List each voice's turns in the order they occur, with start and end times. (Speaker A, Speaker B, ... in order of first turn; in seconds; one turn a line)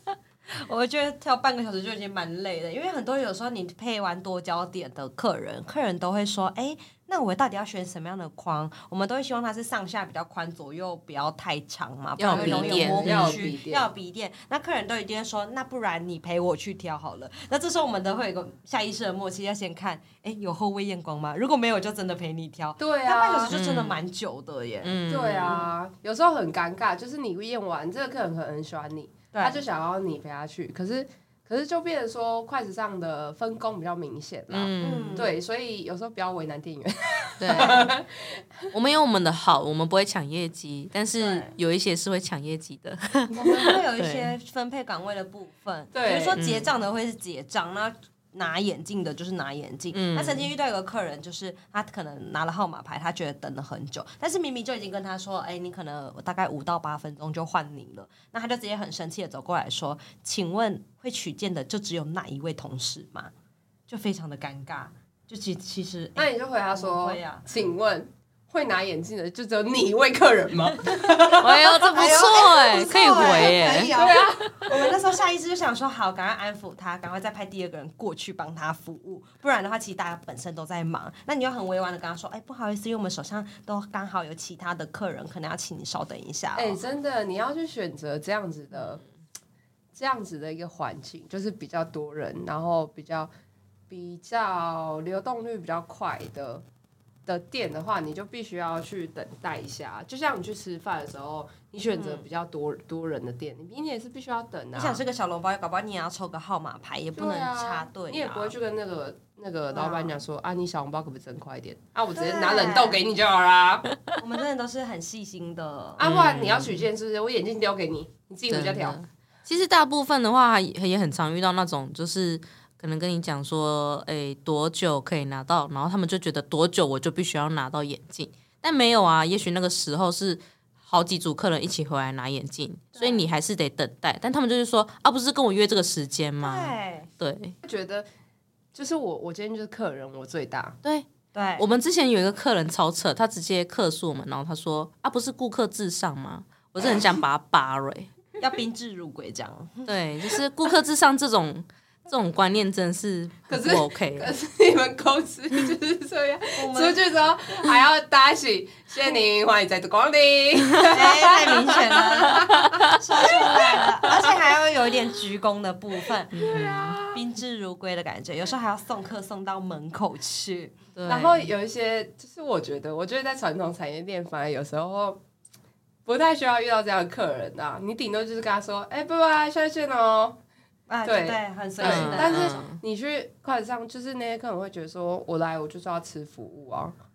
Speaker A: 0.5-25.6
Speaker B: 12.2-13.4
Speaker C: 12.3-13.9
Speaker C: 22.8-23.5
Speaker B: 23.5-24.0
Speaker B: 24.8-25.7
Speaker C: 25.1-38.7
Speaker A: 29.3-29.6
Speaker B: 34.5-35.3
Speaker A: 34.8-35.3
Speaker B: 37.4-37.8
Speaker A: 37.5-37.9
Speaker B: 38.7-44.3
Speaker A: 41.2-41.5
Speaker C: 43.3-43.8
Speaker A: 43.5-63.3
Speaker C: 45.9-46.4
Speaker B: 46.4-46.7
Speaker B: 49.9-50.5
Speaker A: 63.9-67.5
Speaker C: 66.2-72.0
Speaker A: 70.9-86.8
Speaker B: 71.4-73.9
Speaker C: 73.4-74.9
Speaker C: 86.6-89.0
Speaker C: 90.0-93.3
Speaker C: 93.9-96.6
Speaker C: 97.3-105.0
Speaker A: 102.0-102.3
Speaker A: 104.8-108.5
Speaker C: 107.2-113.8
Speaker A: 109.7-110.1
Speaker A: 112.1-113.0
Speaker A: 114.2-116.0
Speaker C: 116.0-119.0
Speaker B: 116.0-116.9
Speaker B: 118.5-137.6
Speaker A: 132.9-133.2
Speaker A: 136.4-137.1
Speaker C: 137.6-138.1
Speaker C: 138.7-140.8
Speaker B: 140.8-148.1
Speaker A: 141.3-141.6
Speaker A: 148.4-149.9
Speaker B: 149.9-154.3
Speaker C: 153.5-163.8
Speaker A: 156.6-157.0
Speaker A: 160.9-170.7
Speaker B: 162.5-162.9
Speaker B: 166.3-167.0
Speaker C: 166.4-167.2
Speaker B: 170.9-171.5
Speaker C: 171.1-175.2
Speaker C: 176.1-180.4
Speaker A: 180.9-182.6
Speaker C: 181.1-186.9
Speaker B: 181.8-182.8